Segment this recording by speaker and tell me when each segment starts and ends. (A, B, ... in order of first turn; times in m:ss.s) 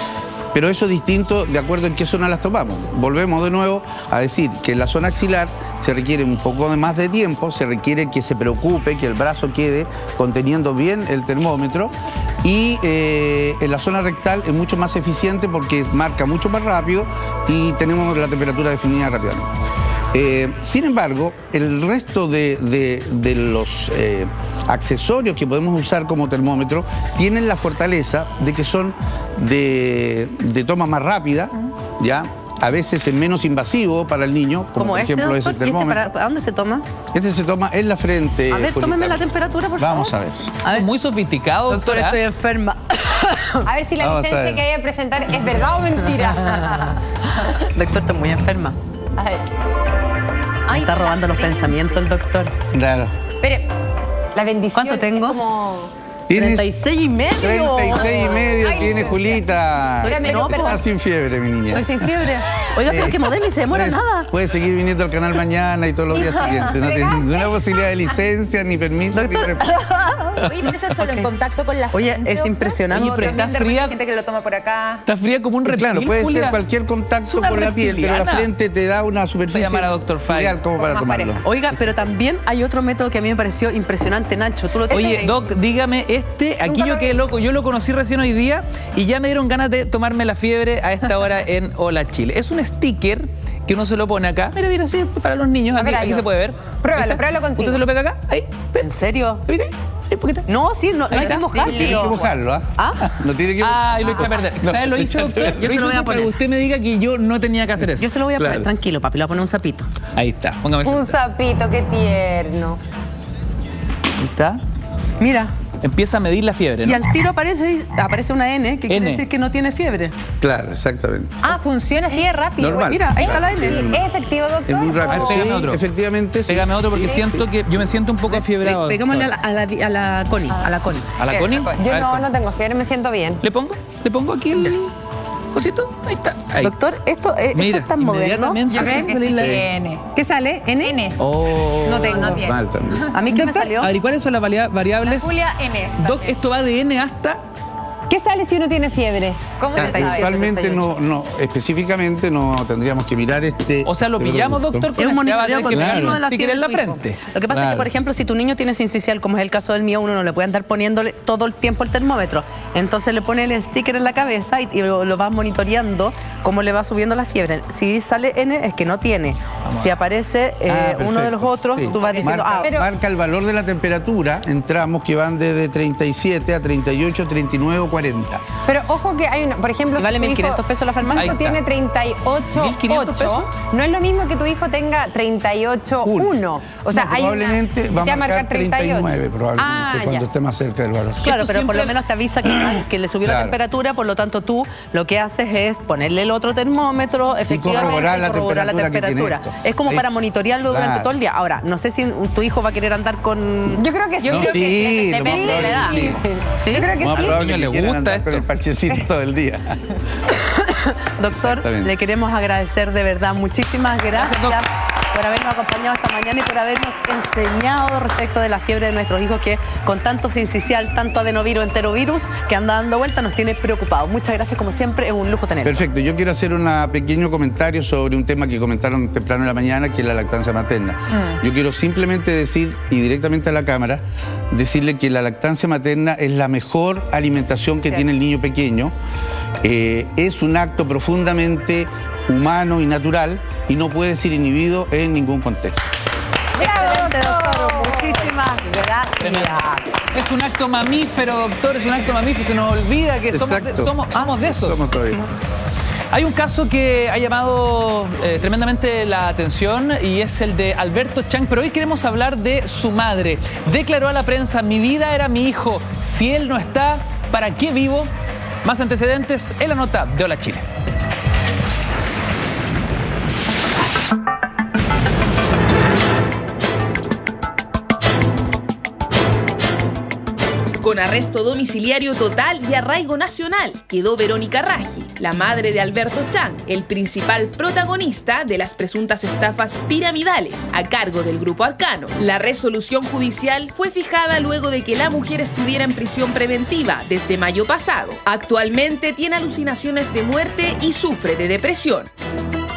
0:00.5-0:19.5 A
0:20.1-0:36.0 A
0:34.8-0:36.8 B
0:37.1-0:39.2 A
0:38.5-0:40.9 B
0:39.8-0:40.5 A
0:40.7-0:42.2 C
0:41.7-0:43.7 B
0:43.7-0:46.9 D
0:44.0-0:44.6 A
0:47.7-0:49.3 B
0:50.7-0:52.0 E
0:50.7-0:52.6 B
0:52.7-0:53.1 A
0:53.4-0:53.7 E
0:54.4-0:55.9 D
0:54.7-0:55.4 B
0:56.3-0:56.7 A
0:56.3-0:59.2 B
0:57.4-1:01.9 A
0:58.5-0:59.5 E
1:00.0-1:00.7 B
1:00.0-1:00.8 D
1:00.5-1:00.8 E
1:01.7-1:04.3 B
1:02.8-1:09.6 A
1:06.1-1:07.7 E
1:09.1-1:10.4 B
1:10.5-1:15.0 E
1:11.9-1:13.4 B
1:12.9-1:14.0 C
1:15.0-1:16.6 C
1:15.6-1:21.4 A
1:17.3-1:18.5 C
1:19.5-1:20.6 C
1:20.8-1:21.4 E
1:21.4-1:25.3 B
1:24.9-1:38.9 C
1:26.6-1:27.2 D
1:35.8-1:36.3 D
1:36.8-1:37.8 D
1:38.8-1:39.4 B
1:39.5-1:40.4 C
1:40.5-1:42.2 B
1:41.1-1:41.8 C
1:41.2-1:42.2 E
1:41.7-1:45.6 A
1:42.8-1:43.0 B
1:43.6-1:48.1 C
1:45.6-1:46.4 B
1:48.0-1:49.9 B
1:48.4-1:48.7 A
1:50.2-1:51.2 C
1:50.8-1:52.8 D
1:54.2-1:54.6 C
1:55.2-1:55.5 B
1:55.8-1:57.0 C
1:56.8-2:00.2 B
1:58.9-1:59.2 C
2:00.4-2:01.5 A
2:01.4-2:02.9 E
2:02.6-2:04.0 A
2:02.8-2:03.9 B
2:03.2-2:05.5 D
2:04.7-2:07.4 A
2:05.1-2:05.8 C
2:06.5-2:09.3 C
2:08.3-2:11.1 B
2:11.2-2:12.2 C
2:11.2-2:11.9 E
2:11.8-2:13.4 D
2:13.4-2:14.9 C
2:15.5-2:16.7 C
2:16.6-2:18.6 B
2:17.5-2:19.6 C
2:18.7-2:20.0 E
2:18.8-2:19.1 D
2:19.4-2:19.6 A
2:20.2-2:21.0 D
2:20.8-2:21.2 E
2:21.2-2:22.3 C
2:21.8-2:22.5 D
2:22.0-2:23.0 E
2:22.4-2:23.1 A
2:23.1-2:23.9 B
2:23.3-2:23.7 D
2:23.8-2:25.3 C
2:25.0-2:26.4 E
2:26.0-2:27.4 C
2:28.1-2:30.8 D
2:29.6-2:30.9 E
2:29.8-2:34.9 A
2:33.8-2:37.2 C
2:35.0-2:52.7 B
2:35.7-2:36.2 A
2:37.5-2:37.9 A
2:49.6-2:49.9 C
2:50.7-2:58.4 A
2:52.6-2:52.9 D
2:58.7-3:10.3 D
3:00.0-3:01.4 B
3:01.2-3:01.6 C
3:02.6-3:03.4 C
3:06.0-3:11.4 A
3:11.2-3:12.0 C
3:11.2-3:23.8 B
3:12.5-3:13.6 A
3:17.5-3:20.1 A
3:17.8-3:18.1 D
3:20.7-3:21.1 A
3:23.8-3:27.4 D
3:24.2-3:26.2 E
3:24.3-3:26.2 A
3:26.6-3:27.0 B
3:26.9-3:29.8 A
3:27.2-3:28.5 C
3:30.4-3:45.8 B
3:31.3-3:31.9 A
3:34.2-3:34.6 C
3:45.6-3:58.9 A
3:51.1-3:51.4 E
3:57.9-3:58.1 E
3:59.6-4:05.8 A
4:06.6-4:10.0 B
4:06.6-4:08.1 D
4:09.2-4:09.6 C
4:10.1-4:14.9 C
4:13.3-4:15.3 A
4:16.1-4:28.1 C
4:28.6-4:30.7 C
4:40.8-5:02.1 F